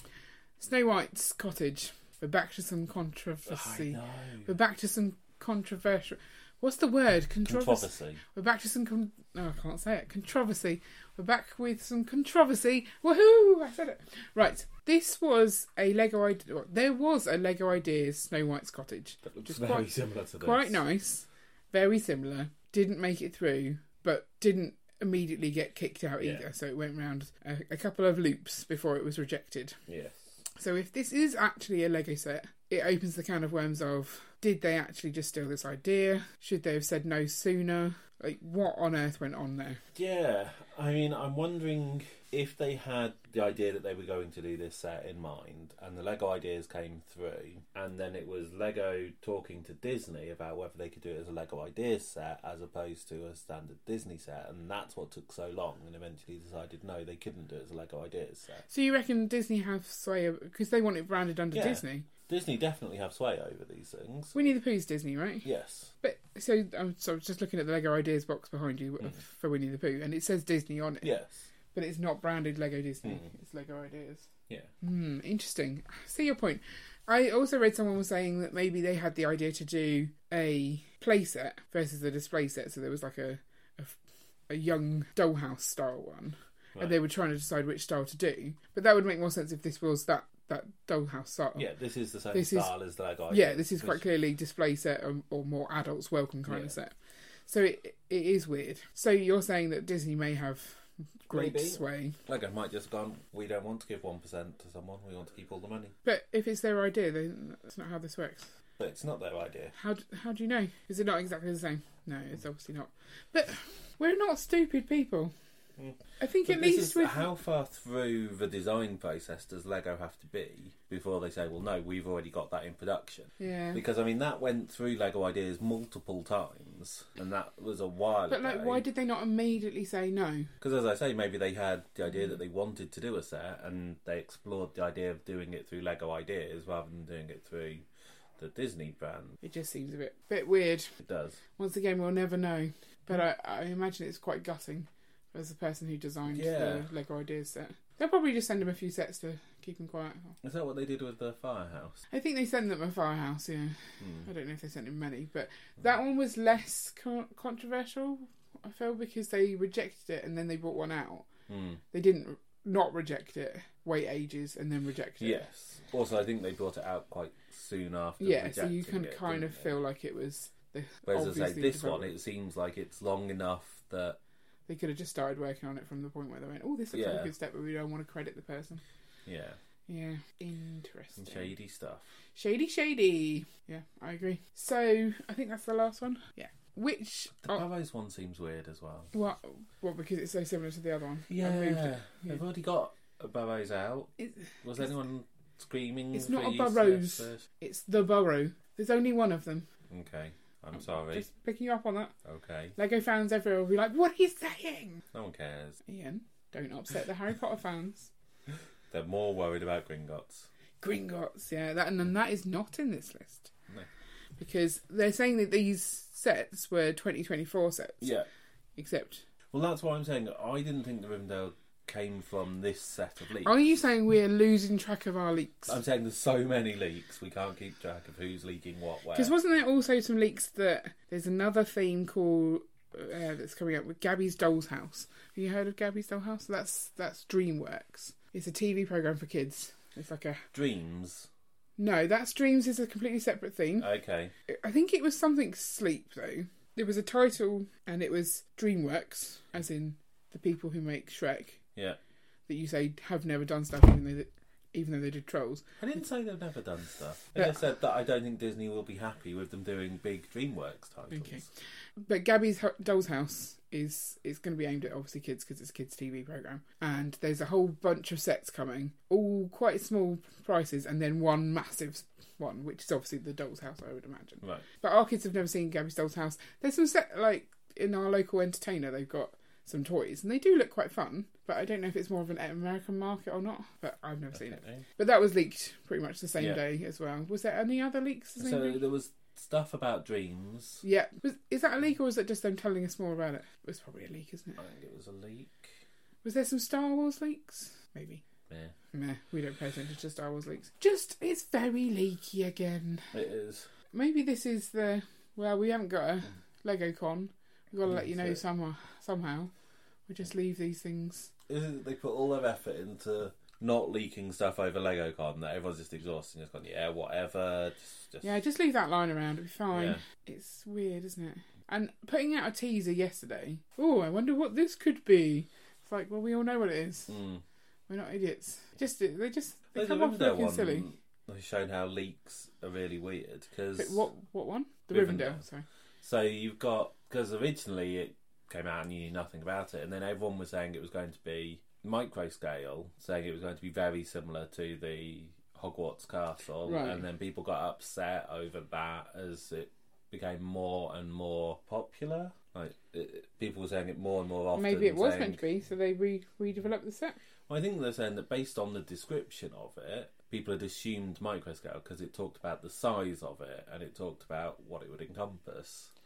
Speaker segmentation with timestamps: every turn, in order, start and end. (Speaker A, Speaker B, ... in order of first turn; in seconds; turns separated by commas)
Speaker A: 0.6-29.8, Speaker B: 3.5-4.5, Speaker B: 7.4-8.2, Speaker B: 19.2-20.8, Speaker B: 29.9-30.3, Speaker A: 30.6-39.8, Speaker B: 39.9-58.6, Speaker A: 58.7-62.1, Speaker B: 61.5-64.5, Speaker A: 64.3-65.5, Speaker B: 65.4-65.9, Speaker A: 66.0-71.1, Speaker B: 71.0-71.5, Speaker A: 71.7-74.3, Speaker A: 74.8-84.0, Speaker A: 84.5-91.7, Speaker B: 91.5-94.0, Speaker A: 92.3-92.7, Speaker A: 93.3-96.9, Speaker B: 96.5-96.7, Speaker A: 97.5-102.2, Speaker B: 101.3-105.9, Speaker A: 106.0-108.5, Speaker B: 108.8-109.7, Speaker A: 109.7-115.3, Speaker B: 115.8-128.8, Speaker A: 116.2-117.3, Speaker A: 123.4-123.8, Speaker A: 128.3-130.5, Speaker B: 130.6-137.8, Speaker B: 138.4-139.4, Speaker A: 139.4-140.9, Speaker B: 141.0-141.4, Speaker A: 141.6-150.3, Speaker B: 146.3-146.8, Speaker B: 150.4-152.0, Speaker A: 152.1-161.2, Speaker B: 154.0-154.3, Speaker B: 161.5-161.8, Speaker A: 161.9-165.4, Speaker B: 165.2-169.7, Speaker A: 168.2-172.1, Speaker B: 171.1-174.2, Speaker A: 174.7-178.8, Speaker B: 176.9-177.3, Speaker B: 179.2-179.6, Speaker A: 179.9-181.5, Speaker B: 181.2-182.1, Speaker A: 182.3-187.6, Speaker B: 187.4-189.1, Speaker A: 189.1-192.4, Speaker B: 191.3-194.1, Speaker A: 194.2-194.5, Speaker B: 194.6-197.4, Speaker A: 196.1-199.7, Speaker B: 199.9-201.3, Speaker A: 200.8-202.1, Speaker B: 202.2-202.8, Speaker A: 202.8-205.0, Speaker B: 205.1-205.8, Speaker A: 205.8-208.1, Speaker B: 208.9-210.5, Speaker A: 210.8-213.5, Speaker A: 214.4-218.1, Speaker B: 218.0-218.3, Speaker A: 218.8-219.2, Speaker B: 219.5-223.5, Speaker A: 223.4-225.8, Speaker B: 225.7-229.3, Speaker A: 229.1-240.4, Speaker B: 240.5-241.3, Speaker A: 241.8-243.9, Speaker B: 243.8-244.3, Speaker A: 244.5-251.6, Speaker A: 252.5-255.6, Speaker B: 255.8-261.5, Speaker A: 261.1-288.8, Speaker B: 284.3-284.8, Speaker B: 288.4-290.8, Speaker A: 290.8-294.6, Speaker B: 294.6-295.8, Speaker A: 296.2-298.2, Speaker B: 298.5-298.7, Speaker A: 298.9-303.1, Speaker B: 303.1-303.7, Speaker A: 303.9-309.5, Speaker B: 307.9-308.4, Speaker A: 310.1-311.3, Speaker B: 311.5-318.3, Speaker A: 318.2-327.2, Speaker B: 319.7-320.0, Speaker B: 327.1-327.4, Speaker A: 327.9-330.9, Speaker B: 329.7-334.1, Speaker A: 333.8-335.6, Speaker B: 334.9-335.4, Speaker B: 336.0-355.4, Speaker A: 346.6-347.0, Speaker A: 354.5-357.2, Speaker B: 357.5-365.9